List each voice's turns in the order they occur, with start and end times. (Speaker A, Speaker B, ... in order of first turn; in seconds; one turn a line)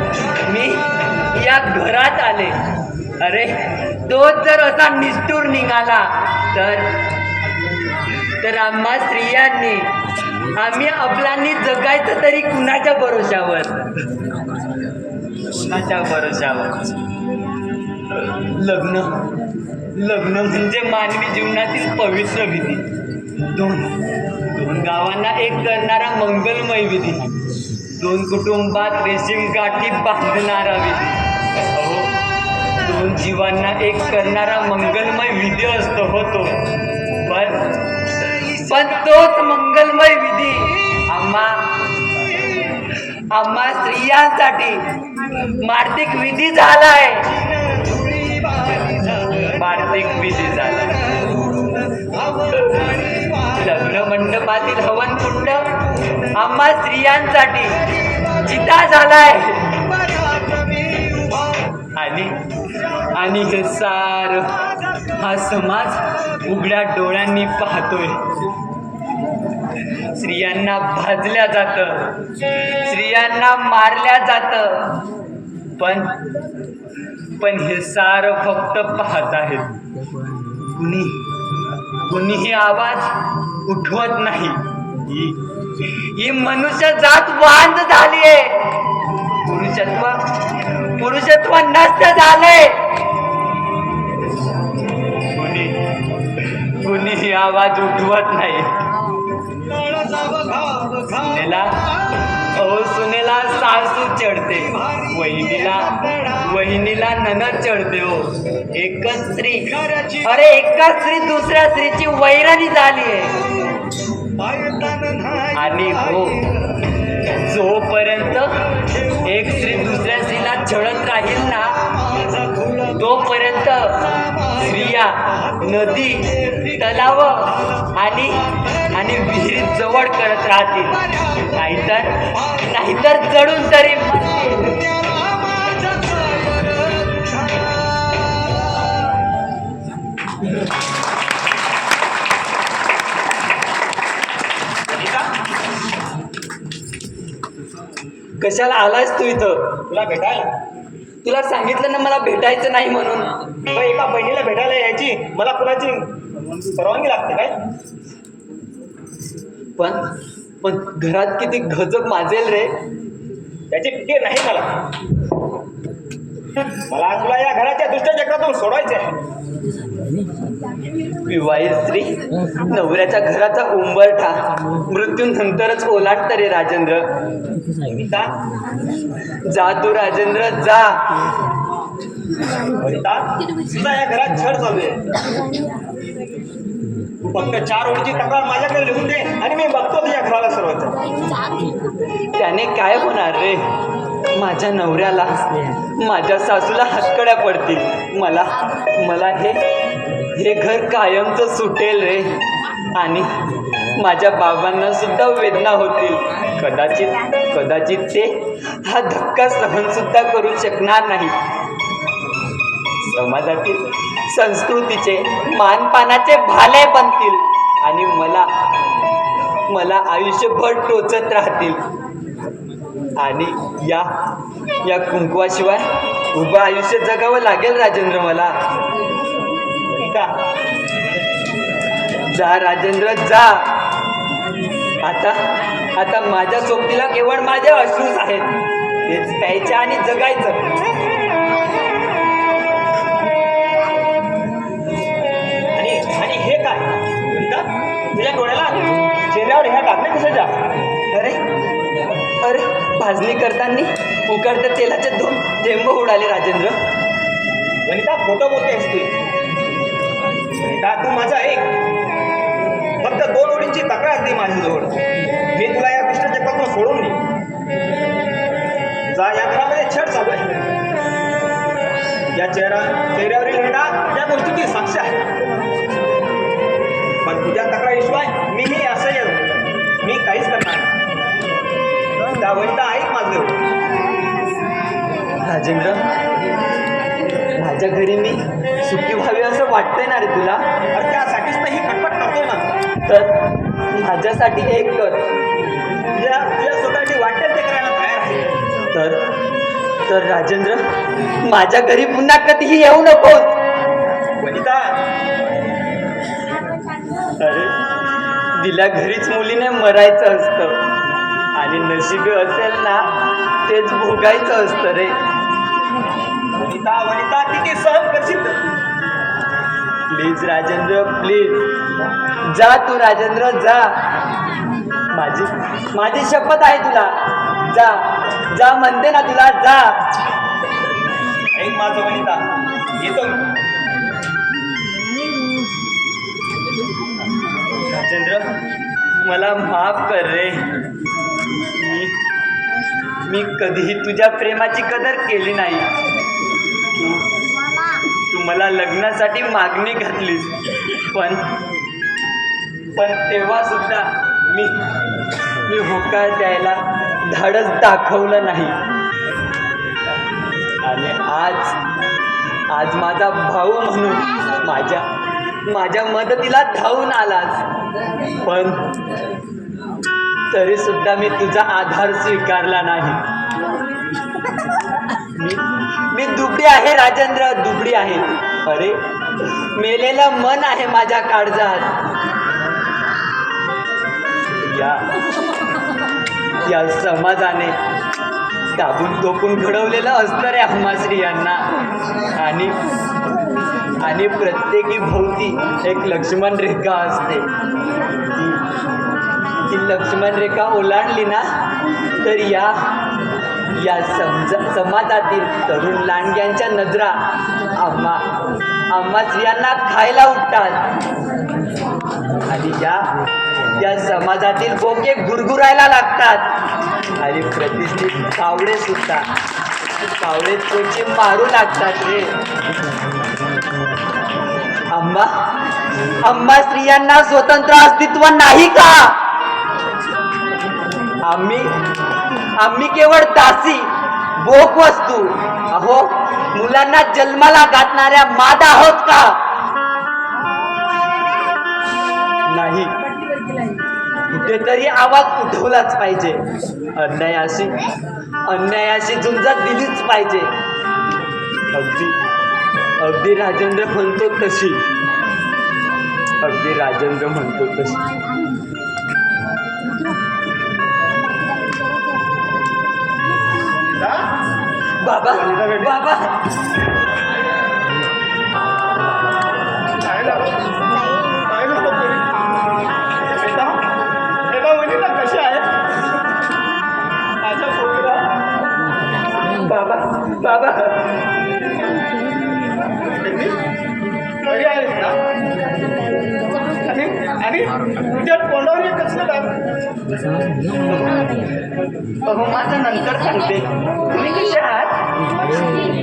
Speaker A: 0.4-2.6
Speaker A: 3.2-6.9
Speaker A: 8.4-9.9
Speaker A: 10.6-13.9
Speaker A: 15.5-16.8
Speaker A: 18.2-19.2
Speaker A: 19.9-22.8
Speaker A: 23.5-23.9
Speaker A: 24.5-27.3
Speaker A: 28.0-31.1
Speaker A: 31.7-32.2
Speaker A: 32.8-36.6
Speaker A: 37.2-37.8
Speaker A: 38.4-41.6
Speaker A: 43.3-44.8
Speaker A: 45.6-47.2
Speaker A: 49.3-51.2
Speaker A: 52.4-55.7
Speaker A: 56.3-59.9
Speaker B: 60.4-61.5
Speaker A: 61.9-62.4
Speaker A: 63.1-64.6
Speaker A: 65.1-68.2
Speaker A: 70.1-72.2
Speaker A: 72.8-75.0
Speaker A: 75.8-76.1
Speaker A: 77.4-79.7
Speaker A: 80.7-81.2
Speaker A: 82.1-83.1
Speaker A: 83.7-85.4
Speaker A: 86.1-88.7
Speaker A: 89.4-90.2
Speaker A: 91.0-92.8
Speaker A: 95.3-95.8
Speaker A: 96.8-98.7
Speaker B: 99.9-101.0
Speaker A: 101.1-101.8
Speaker A: 102.5-113.4
Speaker B: 114.5-115.5
Speaker A: 115.5-116.5
Speaker A: 117.4-118.5
Speaker A: 119.1-121.8
Speaker A: 122.9-131.0
Speaker A: 131.5-134.8
Speaker B: 135.4-137.2
Speaker B: 144.9-145.3
Speaker A: 148.4-149.8
Speaker B: 149.9-150.5
Speaker A: 151.2-153.3
Speaker B: 153.7-156.2
Speaker B: 156.7-157.6
Speaker A: 159.8-160.0
Speaker A: 160.6-162.7
Speaker B: 163.7-164.7
Speaker B: 166.9-169.1
Speaker A: 171.2-177.1
Speaker B: 177.8-178.3
Speaker A: 179.5-181.0
Speaker B: 182.7-185.2
Speaker B: 187.2-191.0
Speaker A: 192.3-193.7
Speaker A: 194.3-195.4
Speaker A: 196.0-199.6
Speaker A: 200.3-202.3
Speaker A: 202.9-203.3
Speaker A: 204.0-211.3
Speaker A: 213.1-218.5
Speaker A: 219.7-221.8
Speaker A: 223.2-224.1
Speaker A: 224.8-228.6
Speaker A: 229.9-230.3
Speaker A: 232.3-233.6
Speaker A: 235.0-235.4
Speaker A: 235.9-238.5
Speaker A: 239.1-240.7
Speaker B: 245.7-250.6
Speaker A: 251.1-251.4
Speaker A: 252.4-256.8
Speaker B: 257.9-259.1
Speaker B: 260.6-261.7
Speaker B: 263.0-265.0
Speaker B: 265.5-267.2
Speaker B: 269.1-270.6
Speaker B: 272.3-275.2
Speaker B: 277.2-280.9
Speaker B: 282.4-283.6
Speaker A: 285.4-286.0
Speaker A: 287.6-290.6
Speaker B: 290.9-292.7
Speaker A: 293.1-295.2
Speaker B: 296.1-298.6
Speaker A: 298.9-299.2
Speaker A: 300.1-300.8
Speaker A: 301.4-303.5
Speaker B: 304.4-304.9
Speaker A: 307.4-307.7
Speaker A: 308.6-310.8
Speaker A: 311.6-313.0
Speaker A: 313.7-315.2
Speaker B: 316.6-318.6
Speaker A: 320.1-321.7
Speaker A: 322.5-323.9
Speaker A: 325.1-327.1
Speaker A: 327.7-329.9
Speaker B: 331.5-332.4
Speaker B: 333.0-333.4
Speaker A: 337.9-338.5
Speaker A: 339.2-340.7
Speaker A: 341.7-342.1
Speaker A: 343.3-345.9
Speaker A: 346.9-347.3
Speaker A: 348.3-351.4
Speaker A: 353.0-354.8
Speaker A: 355.6-358.8
Speaker A: 360.8-361.7
Speaker A: 362.7-365.0
Speaker A: 365.7-367.6
Speaker A: 368.4-368.9
Speaker A: 370.5-373.2
Speaker A: 375.3-378.9
Speaker A: 379.6-382.0
Speaker A: 384.6-385.1
Speaker A: 386.6-387.8
Speaker A: 388.7-391.6
Speaker A: 392.4-392.8
Speaker A: 394.0-397.5
Speaker A: 398.3-398.6
Speaker A: 399.7-401.4
Speaker A: 402.2-402.8
Speaker A: 403.8-407.2
Speaker A: 407.8-408.2
Speaker A: 408.9-410.9
Speaker A: 412.4-413.1
Speaker A: 413.7-416.5
Speaker A: 417.2-419.3
Speaker A: 420.1-422.3
Speaker A: 424.9-425.3
Speaker A: 426.2-429.1
Speaker A: 431.2-431.7
Speaker A: 432.6-439.4
Speaker A: 442.5-442.9
Speaker A: 444.3-446.4
Speaker A: 446.9-447.8
Speaker A: 448.5-450.5
Speaker A: 451.7-452.1
Speaker A: 453.0-454.8
Speaker A: 456.4-458.0
Speaker C: 463.8-464.3
Speaker A: 465.0-466.4
Speaker C: 465.4-465.9
Speaker C: 470.0-470.6
Speaker C: 471.4-472.3
Speaker C: 473.3-473.8
Speaker C: 474.4-475.7
Speaker C: 477.4-478.4
Speaker A: 479.6-481.1
Speaker C: 483.2-483.6
Speaker C: 484.4-485.2
Speaker C: 486.8-489.5
Speaker A: 490.9-491.2
Speaker A: 492.2-495.0